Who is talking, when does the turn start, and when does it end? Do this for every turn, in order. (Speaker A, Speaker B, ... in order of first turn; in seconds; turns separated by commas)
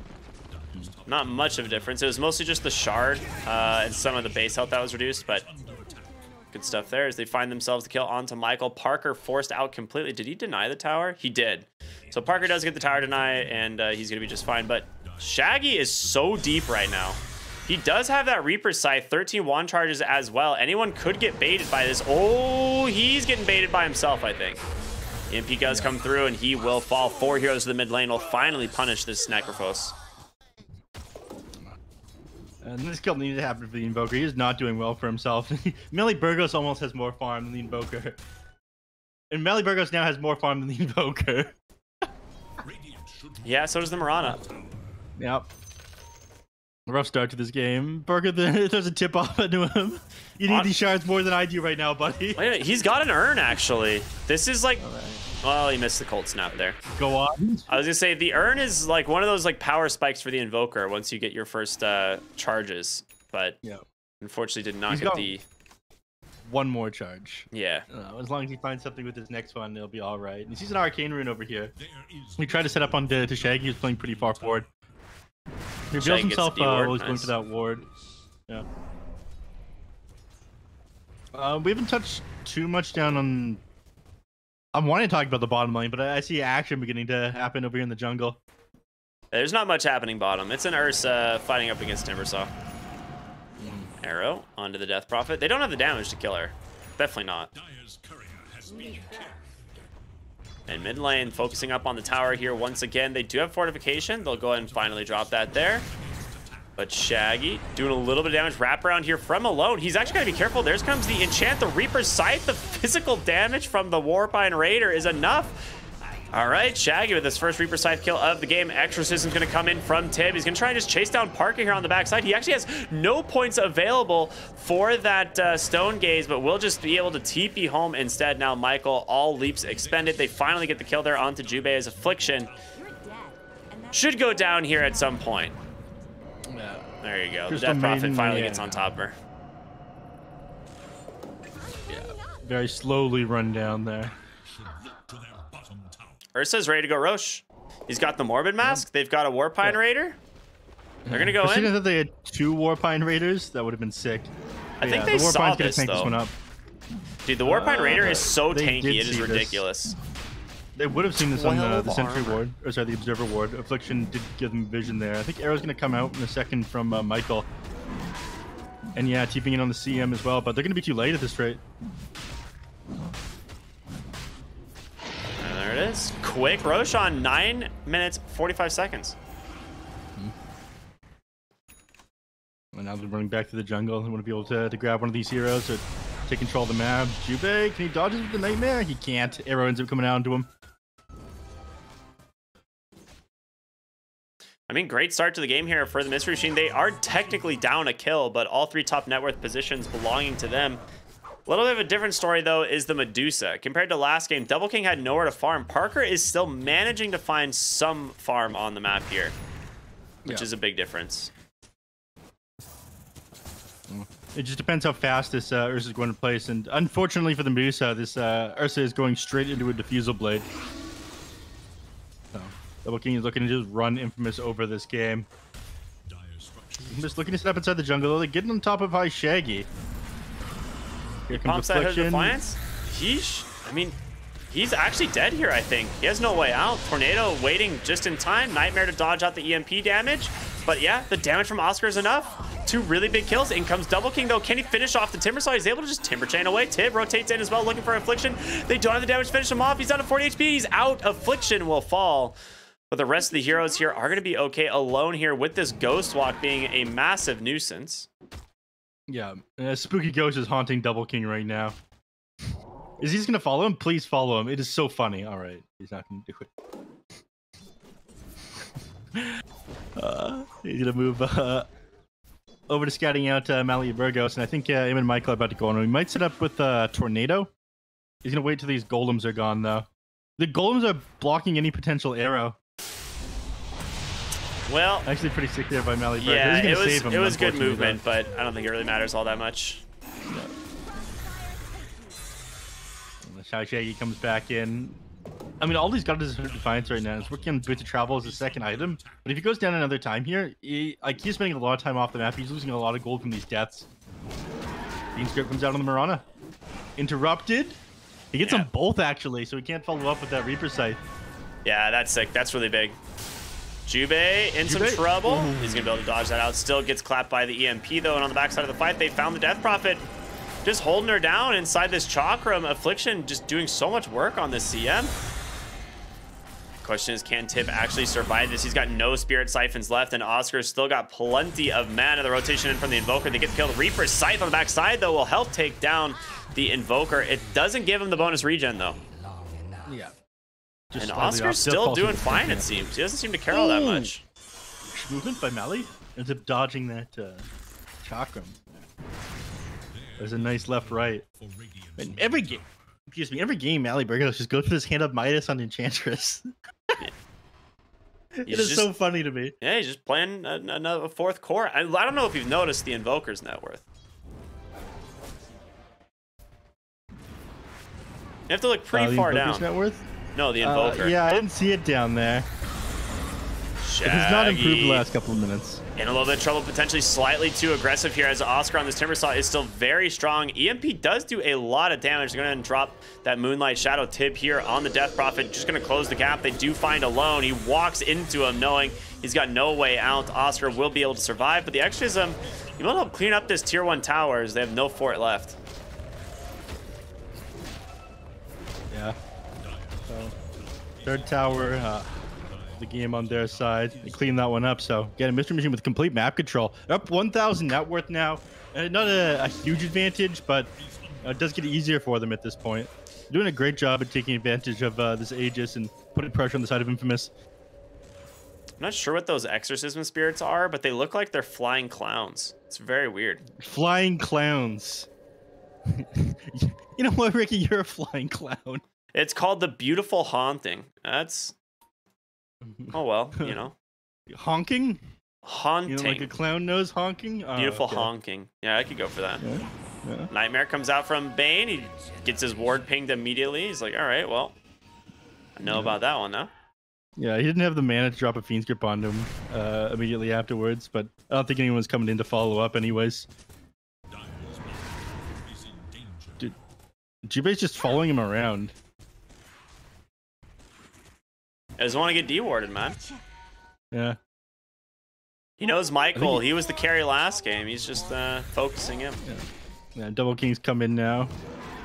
Speaker A: 0.5-2.4, Speaker B: 1.1-5.5, Speaker A: 3.2-6.3, Speaker B: 6.5-24.6, Speaker A: 12.1-13.7, Speaker A: 15.0-17.2, Speaker B: 25.3-29.9, Speaker C: 25.7-25.9, Speaker C: 32.6-38.2, Speaker C: 39.3-41.5, Speaker A: 42.6-44.7, Speaker B: 43.4-44.4, Speaker C: 45.2-45.5, Speaker C: 46.9-52.4, Speaker B: 50.5-50.7, Speaker B: 52.4-54.8, Speaker C: 54.8-55.2, Speaker B: 55.4-56.8, Speaker C: 56.8-57.7, Speaker B: 57.7-63.6, Speaker B: 64.2-65.4, Speaker C: 64.9-65.3, Speaker C: 66.5-71.7, Speaker B: 67.5-67.9, Speaker A: 71.8-74.9, Speaker C: 72.4-74.6, Speaker C: 75.9-77.8, Speaker B: 76.0-77.3, Speaker C: 81.3-83.6, Speaker C: 84.7-88.4, Speaker B: 89.3-92.5, Speaker C: 93.6-93.9, Speaker B: 94.0-97.5, Speaker A: 97.5-99.9, Speaker B: 100.7-105.8, Speaker A: 100.8-102.7, Speaker A: 103.9-106.8, Speaker B: 106.8-115.6, Speaker B: 116.3-132.5, Speaker A: 129.4-132.8, Speaker D: 132.8-135.5, Speaker B: 133.9-135.6, Speaker C: 136.5-136.8, Speaker B: 137.0-139.2, Speaker C: 137.5-138.9, Speaker C: 141.9-144.1, Speaker A: 144.2-146.2, Speaker B: 146.3-150.2, Speaker C: 151.1-156.3, Speaker B: 151.1-151.7, Speaker B: 154.8-156.2, Speaker B: 157.2-160.0, Speaker C: 157.4-159.6, Speaker C: 160.8-167.5, Speaker B: 161.2-162.4, Speaker C: 168.9-171.6, Speaker B: 175.4-179.2, Speaker C: 182.7-190.5, Speaker B: 194.7-200.8, Speaker B: 201.5-209.3, Speaker B: 210.2-211.3, Speaker C: 213.9-220.5, Speaker C: 222.3-225.3, Speaker A: 226.1-227.6, Speaker C: 226.9-229.7, Speaker C: 231.3-232.4, Speaker B: 231.3-234.0, Speaker B: 234.5-252.4, Speaker B: 252.9-258.1, Speaker C: 259.1-261.8, Speaker C: 263.0-266.5, Speaker C: 268.6-269.4, Speaker C: 270.0-271.7, Speaker C: 272.7-277.5, Speaker C: 278.2-282.6, Speaker B: 284.7-285.1, Speaker C: 285.1-288.0, Speaker B: 286.2-289.8, Speaker C: 290.3-290.5, Speaker C: 293.2-295.0, Speaker C: 295.6-303.9, Speaker A: 296.2-299.4, Speaker C: 305.1-306.2, Speaker C: 307.0-307.8, Speaker C: 308.3-311.0, Speaker B: 308.4-308.7, Speaker B: 311.6-313.0, Speaker B: 313.9-320.1, Speaker C: 314.6-315.7, Speaker B: 320.6-325.1, Speaker B: 326.8-339.0, Speaker D: 339.4-339.9, Speaker C: 339.9-340.1, Speaker C: 340.9-342.9, Speaker B: 341.0-344.2, Speaker C: 343.5-344.1, Speaker C: 344.9-347.5, Speaker C: 348.0-348.8, Speaker A: 349.9-352.8, Speaker C: 350.2-351.2, Speaker C: 352.0-357.0, Speaker C: 358.4-359.6, Speaker B: 358.5-358.9, Speaker B: 359.6-363.9, Speaker B: 368.5-369.7, Speaker C: 368.9-370.1, Speaker B: 370.4-371.2, Speaker C: 370.6-372.5, Speaker B: 373.8-375.1, Speaker C: 374.0-375.8, Speaker B: 376.0-395.6, Speaker A: 392.4-393.5, Speaker C: 398.9-399.2, Speaker A: 399.6-404.8, Speaker C: 400.1-400.3, Speaker C: 401.1-402.1, Speaker C: 402.8-410.7, Speaker A: 410.8-411.9, Speaker C: 411.2-417.3, Speaker B: 418.8-423.4, Speaker C: 423.6-425.1, Speaker C: 425.9-428.8, Speaker B: 429.1-431.6, Speaker C: 432.6-433.6, Speaker B: 432.9-433.8, Speaker C: 434.3-435.0, Speaker B: 435.4-436.3, Speaker C: 435.9-438.1, Speaker B: 437.6-439.4, Speaker C: 439.4-440.3, Speaker B: 440.3-444.6, Speaker B: 445.6-446.5, Speaker C: 445.7-446.0, Speaker C: 447.2-453.3, Speaker A: 454.1-456.6, Speaker C: 457.2-458.8, Speaker B: 461.8-463.0, Speaker C: 463.9-464.2, Speaker B: 465.6-469.2, Speaker C: 466.1-466.4, Speaker C: 469.2-471.3